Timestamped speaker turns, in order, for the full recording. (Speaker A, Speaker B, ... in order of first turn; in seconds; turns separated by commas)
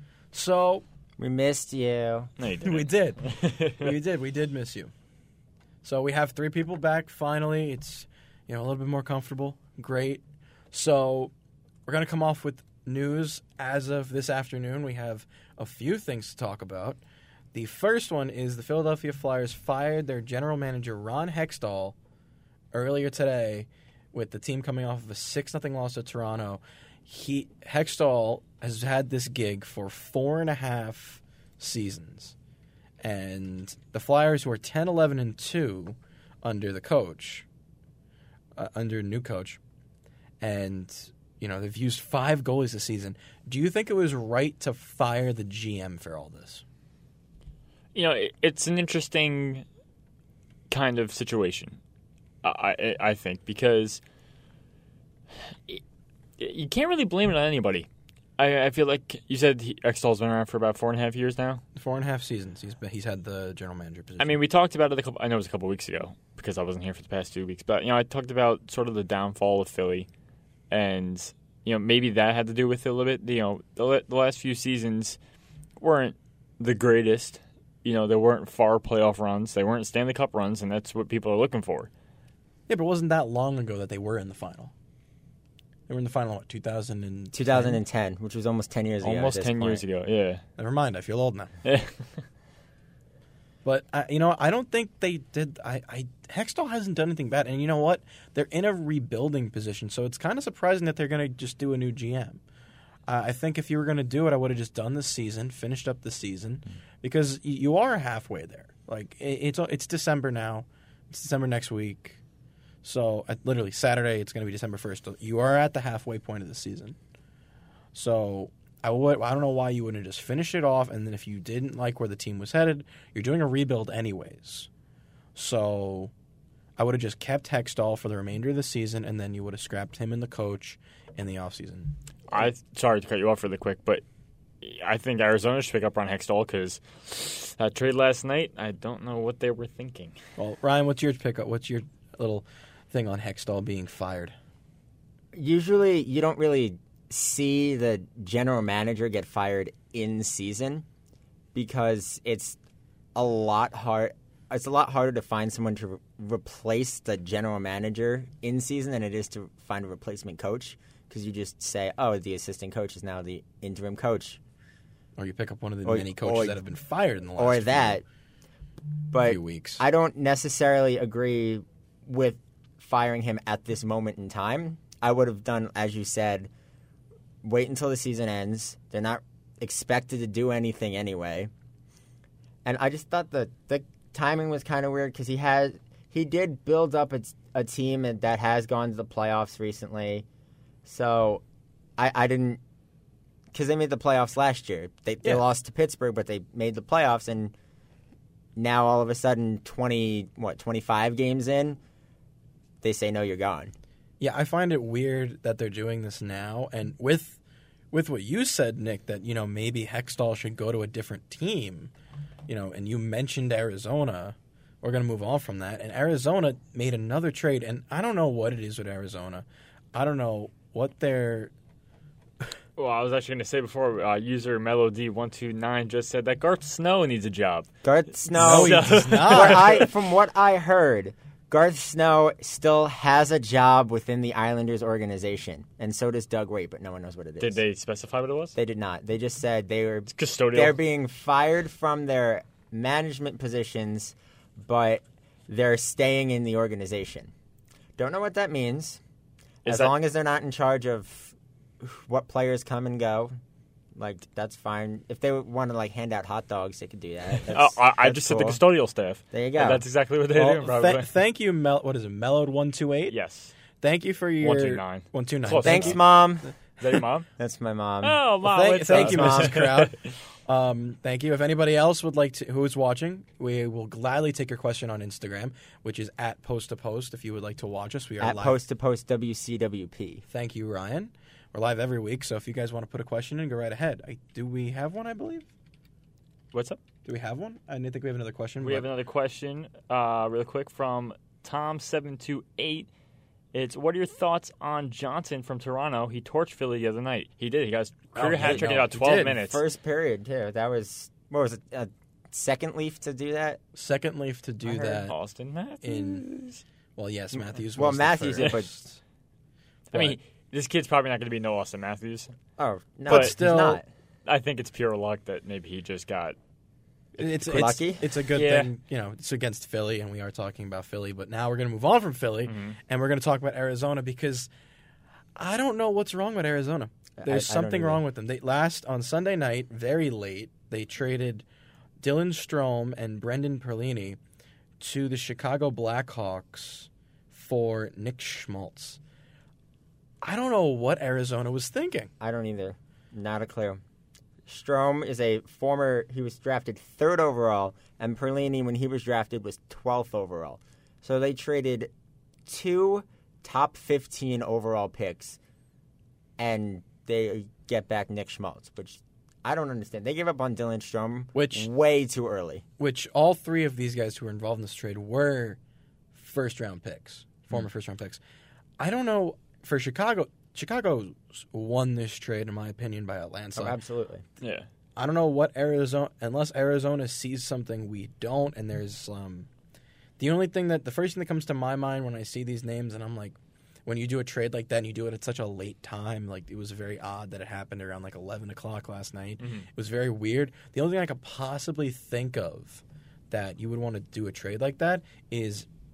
Speaker A: 0.3-0.8, Speaker B: 1.2-2.3, Speaker C: 2.4-4.0, Speaker A: 2.6-4.9, Speaker A: 5.8-11.3, Speaker A: 11.9-17.0, Speaker A: 17.5-22.0, Speaker A: 22.7-32.4, Speaker A: 33.0-37.5, Speaker A: 38.6-39.6, Speaker A: 40.4-46.6, Speaker C: 48.0-49.6, Speaker C: 50.7-51.8, Speaker C: 52.4-54.0, Speaker C: 55.5-55.8, Speaker C: 56.4-61.6, Speaker A: 61.8-64.4, Speaker C: 64.2-70.1, Speaker C: 70.7-75.2, Speaker C: 75.8-81.9, Speaker A: 82.7-84.7, Speaker A: 85.9-87.8, Speaker B: 87.3-89.8, Speaker C: 89.0-90.4, Speaker A: 90.6-91.5, Speaker C: 91.7-92.0, Speaker A: 93.6-102.4, Speaker A: 103.1-112.2, Speaker A: 112.8-117.0, Speaker A: 117.9-124.7, Speaker A: 125.3-126.1, Speaker A: 126.8-132.5, Speaker C: 132.3-134.0, Speaker C: 134.6-140.2, Speaker A: 140.4-144.3, Speaker B: 145.3-150.8, Speaker B: 151.5-152.6, Speaker B: 153.2-164.4, Speaker A: 165.2-168.0, Speaker B: 165.8-166.6, Speaker B: 167.4-168.0, Speaker B: 169.1-176.5, Speaker A: 169.2-169.8, Speaker B: 177.4-181.5, Speaker B: 182.7-190.3, Speaker B: 190.8-191.4, Speaker B: 192.0-192.6, Speaker B: 193.5-197.5, Speaker B: 198.6-201.8, Speaker B: 202.8-203.7, Speaker A: 204.2-207.4, Speaker A: 207.9-211.9, Speaker A: 212.5-221.5, Speaker C: 222.8-229.9, Speaker B: 227.8-237.6, Speaker A: 228.3-229.9, Speaker C: 237.4-238.6, Speaker B: 238.6-247.3, Speaker C: 240.1-240.8, Speaker B: 248.0-249.0, Speaker C: 249.7-249.9, Speaker B: 249.7-253.4, Speaker B: 254.0-258.6, Speaker C: 257.5-261.1, Speaker B: 259.3-259.8, Speaker A: 260.3-263.2, Speaker C: 263.1-263.6, Speaker A: 263.8-266.1, Speaker C: 264.4-266.1, Speaker B: 265.6-266.4, Speaker C: 266.8-267.3, Speaker B: 267.4-268.2, Speaker C: 268.0-270.1, Speaker A: 268.4-278.6, Speaker B: 268.9-269.6, Speaker B: 278.2-280.2, Speaker A: 280.3-285.5, Speaker C: 286.5-286.8, Speaker A: 287.1-288.9, Speaker C: 288.6-292.9, Speaker C: 293.5-299.6, Speaker A: 298.1-299.4, Speaker B: 298.4-303.6, Speaker A: 303.7-305.1, Speaker B: 304.6-305.0, Speaker C: 305.1-306.6, Speaker A: 305.8-306.2, Speaker A: 307.0-309.0, Speaker B: 307.3-308.7, Speaker A: 309.9-310.2, Speaker C: 309.9-312.3, Speaker B: 312.6-313.9, Speaker C: 313.1-313.3, Speaker A: 313.1-313.8, Speaker C: 314.3-316.4, Speaker A: 317.2-324.5, Speaker B: 317.2-318.0, Speaker C: 318.3-318.7, Speaker C: 322.5-322.8, Speaker A: 325.4-331.5, Speaker B: 327.2-328.0, Speaker A: 332.0-334.2, Speaker A: 334.8-339.0, Speaker A: 340.2-342.1, Speaker B: 342.2-343.8, Speaker B: 344.5-351.9, Speaker B: 352.5-355.4, Speaker B: 356.4-362.6, Speaker A: 361.3-361.7, Speaker A: 362.8-365.6, Speaker A: 366.1-368.2, Speaker A: 368.8-373.8, Speaker B: 373.6-374.2, Speaker C: 374.4-374.7, Speaker A: 375.0-379.5, Speaker A: 380.2-395.7, Speaker C: 389.4-389.7